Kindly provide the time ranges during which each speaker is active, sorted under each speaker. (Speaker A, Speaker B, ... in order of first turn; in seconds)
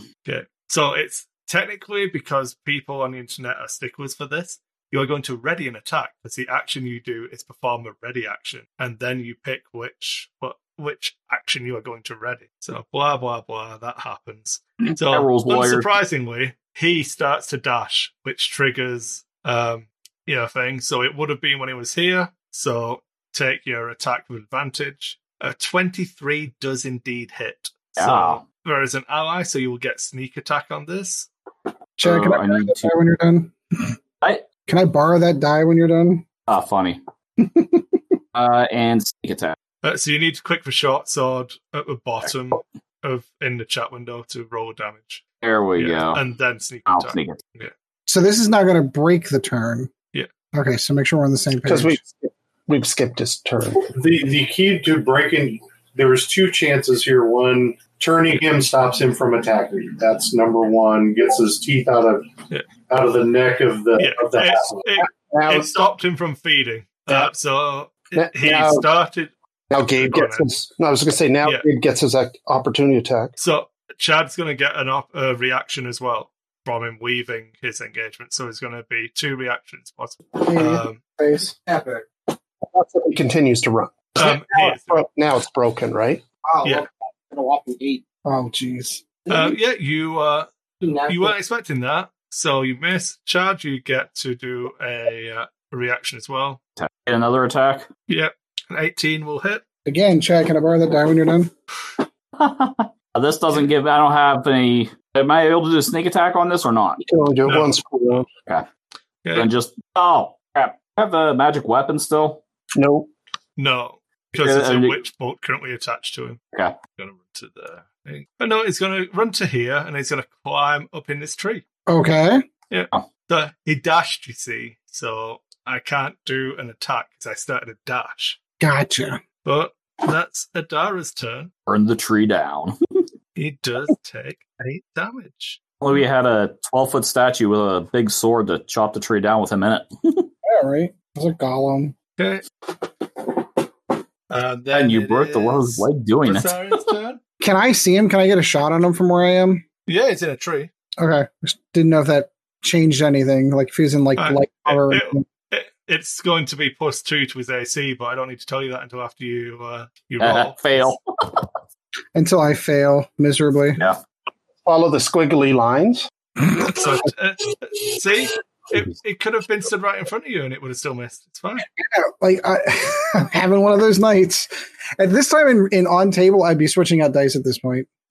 Speaker A: 0.3-31.3, 39.8-45.2, 45.8-47.7, 64.0-70.5, 73.4-81.0, 84.2-85.0, 89.3-90.5, 91.1-96.6, 98.1-99.6, 107.5-108.2, 109.2-109.5, 113.6-116.4, 117.0-121.6, 122.7-128.4, 129.4-131.5, 133.4-135.6, 142.2-142.4, 144.3-147.2, 149.9-150.7, 154.2-160.9, 166.6-171.7
Speaker B: 14.8-15.9, 28.0-28.4, 32.0-32.9, 36.5-37.0, 38.3-39.6, 45.4-46.2, 46.9-47.4, 96.8-97.9, 102.4-107.0, 109.3-112.4, 114.4-115.0, 131.7-132.8, 135.8-140.3, 144.7-146.5, 160.2-161.5
Speaker C: 32.0-33.9, 34.7-36.3, 37.4-38.0, 48.1-49.9, 50.5-52.0, 80.4-81.5, 88.2-89.0, 99.9-101.5, 121.9-122.5, 128.6-129.2, 140.4-141.9, 147.4-149.6, 151.0-155.2, 162.2-163.8, 171.8-177.9
Speaker D: 51.6-53.9, 65.2-65.7, 68.2-68.9, 69.7-73.3, 82.7-86.2, 107.0-108.3, 112.8-113.1, 164.7-166.1
Speaker E: 53.9-62.3, 62.9-64.8
Speaker F: 81.7-82.1, 86.5-88.0, 89.3-89.5, 90.8-91.4